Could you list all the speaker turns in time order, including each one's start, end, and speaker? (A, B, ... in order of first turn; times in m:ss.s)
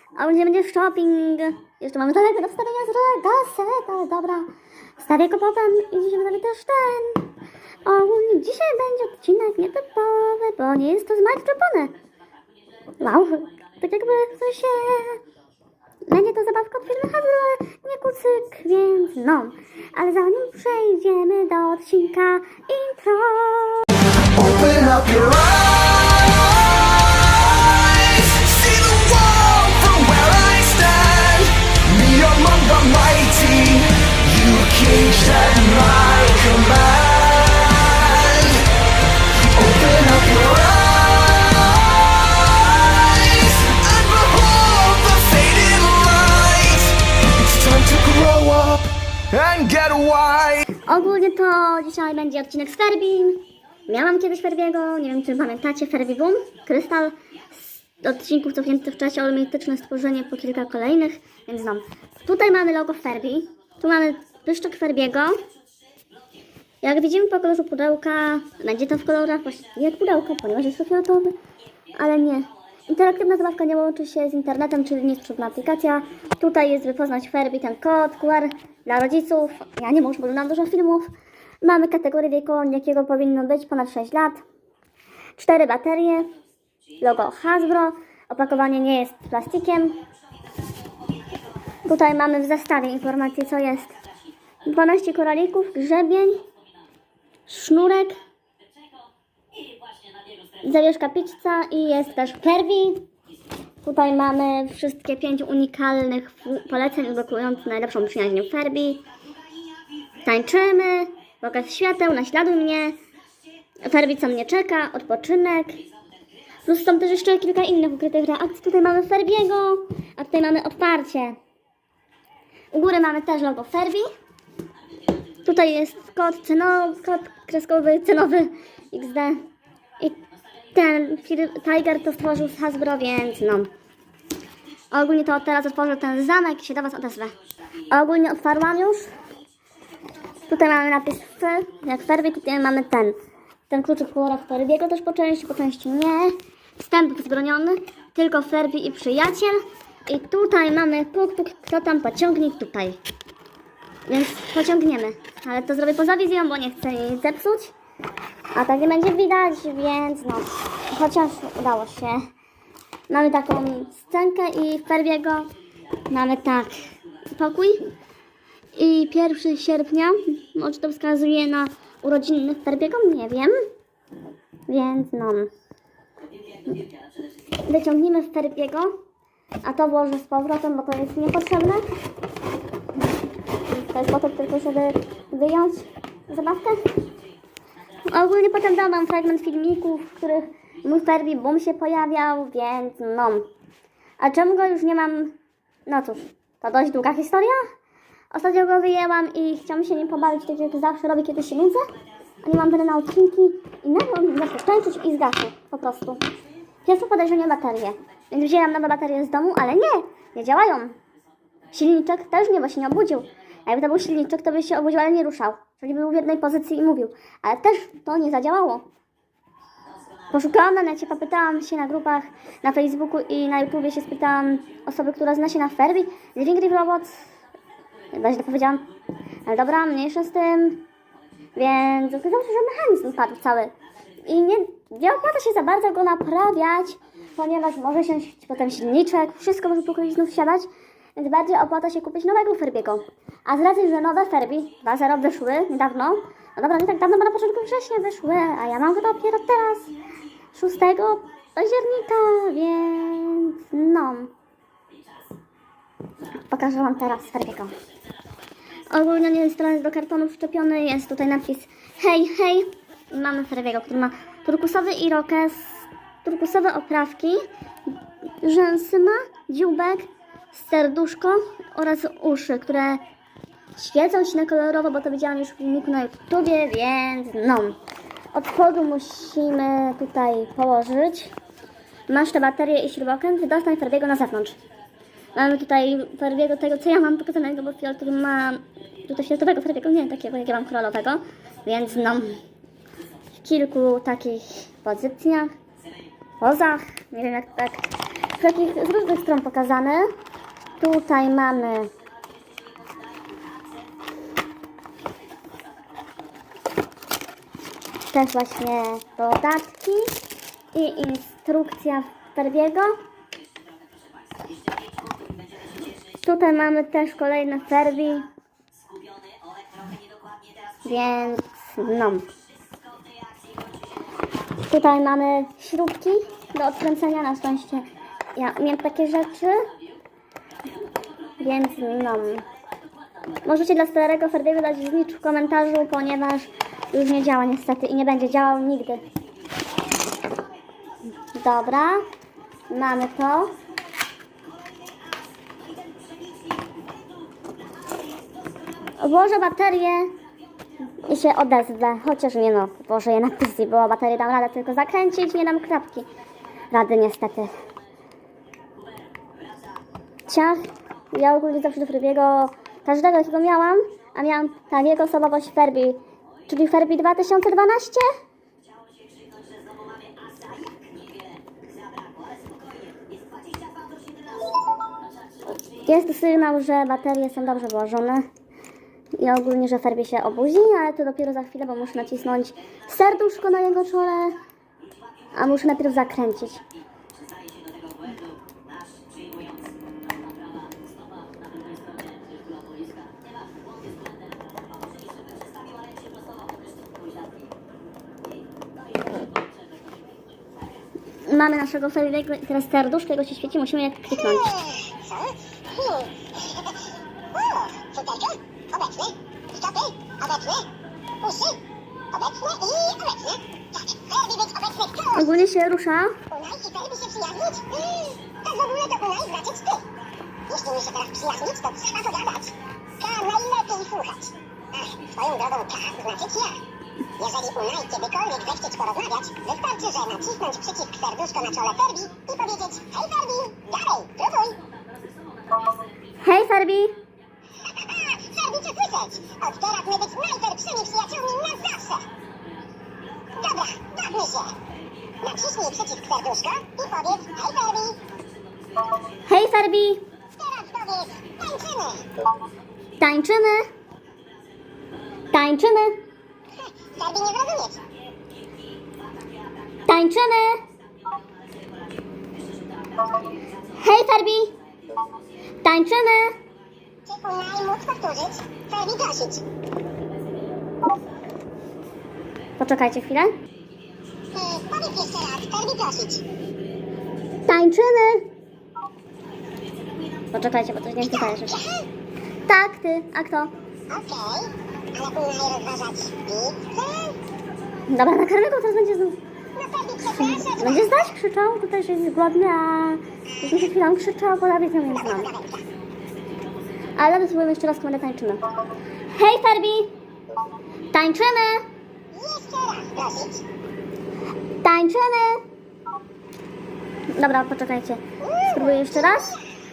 0:00.2-0:07.3 A
0:07.8-0:11.9 A
0:13.0-0:15.2 A
0:16.1-0:23.8 A
0:24.3-0:38.6 B
0:39.5-0:50.6 B
0:50.8-0:57.2 A
0:58.0-1:05.4 A
1:06.8-1:11.3 A
1:12.0-1:21.1 A
1:21.6-1:24.4 A
1:25.4-1:26.3 A
1:27.0-1:30.0 A
1:31.8-1:34.0 A
1:34.6-1:36.4 A
1:37.5-1:38.2 A
1:40.6-1:43.1 A
1:43.8-1:49.0 A
1:50.2-1:53.0 A
1:53.8-1:55.8 A
1:56.6-2:01.4 A
2:02.7-2:04.1 A
2:05.4-2:09.4 A
2:10.7-2:13.7 A
2:14.9-2:17.4 A
2:17.9-2:19.1 A
2:20.5-2:23.2 A
2:23.7-2:33.0 A
2:34.1-2:37.7 A
2:38.5-2:42.3 A
2:43.1-2:45.5 A
2:46.1-2:46.8 A
2:47.3-2:47.8 A
2:48.8-2:53.5 A
2:54.7-2:55.5 A
2:57.6-2:59.0 A
2:59.6-3:01.8 A
3:03.7-3:06.9 A
3:08.1-3:13.4 A
3:14.2-3:15.4 A
3:15.9-3:17.7 A
3:18.3-3:21.9 A
3:22.4-3:26.2 A
3:26.8-3:31.0 A
3:31.7-3:38.8 A
3:40.3-3:47.2 A
3:48.1-3:48.8 A
3:49.4-3:50.8 A
3:51.6-3:53.7 A
3:54.3-4:09.9 A
4:10.5-4:14.3 A
4:16.5-4:17.7 A
4:18.9-4:27.4 A
4:28.4-4:33.0 A
4:33.8-4:37.8 A
4:38.3-4:41.3 A
4:42.1-4:44.6 A
4:45.3-4:52.4 A
4:53.4-4:55.5 A
4:56.4-5:00.1 A
5:00.8-5:01.9 A
5:08.1-5:10.1 A
5:10.7-5:13.0 A
5:16.2-5:18.3 A
5:20.8-5:22.3 A
5:24.7-5:29.7 A
5:31.4-5:32.4 A
5:33.4-5:39.0 A
5:41.3-5:42.0 A
5:42.7-5:43.6 A
5:49.0-5:50.2 A
5:51.0-5:56.1 A
5:56.7-5:57.5 A
6:00.3-6:08.1 A
6:15.8-6:18.3 A
6:19.2-6:24.4 A
6:25.3-6:26.6 A
6:41.2-6:44.5 A
6:44.6-6:51.6 C
6:52.1-6:55.2 C
6:55.1-6:56.2 A
6:56.3-6:59.8 C
7:00.5-7:06.6 C
7:07.2-7:14.6 C
7:16.2-7:17.0 A
7:17.6-7:22.1 C
7:23.3-7:24.6 C
7:25.2-7:28.0 C
7:29.2-7:30.0 A
7:30.4-7:32.0 C
7:33.0-7:33.7 A
7:35.3-7:36.0 A
7:36.6-7:37.8 C
7:39.8-7:40.6 A
7:43.7-7:44.5 A
7:45.6-7:46.4 A
7:47.0-7:49.4 C
7:52.6-7:53.3 A
7:54.3-7:56.2 C
7:57.4-7:58.3 A
8:00.3-8:01.6 A
8:01.1-8:01.9 C
8:02.4-8:03.5 A
8:03.9-8:07.2 C
8:07.9-8:09.2 A
8:09.5-8:10.9 C
8:10.0-8:15.3 A
8:14.9-8:15.6 C
8:17.0-8:18.4 A
8:19.1-8:19.9 A
8:20.9-8:21.7 A
8:22.1-8:23.4 C
8:24.6-8:25.4 A
8:27.1-8:29.3 A
8:28.2-8:29.4 C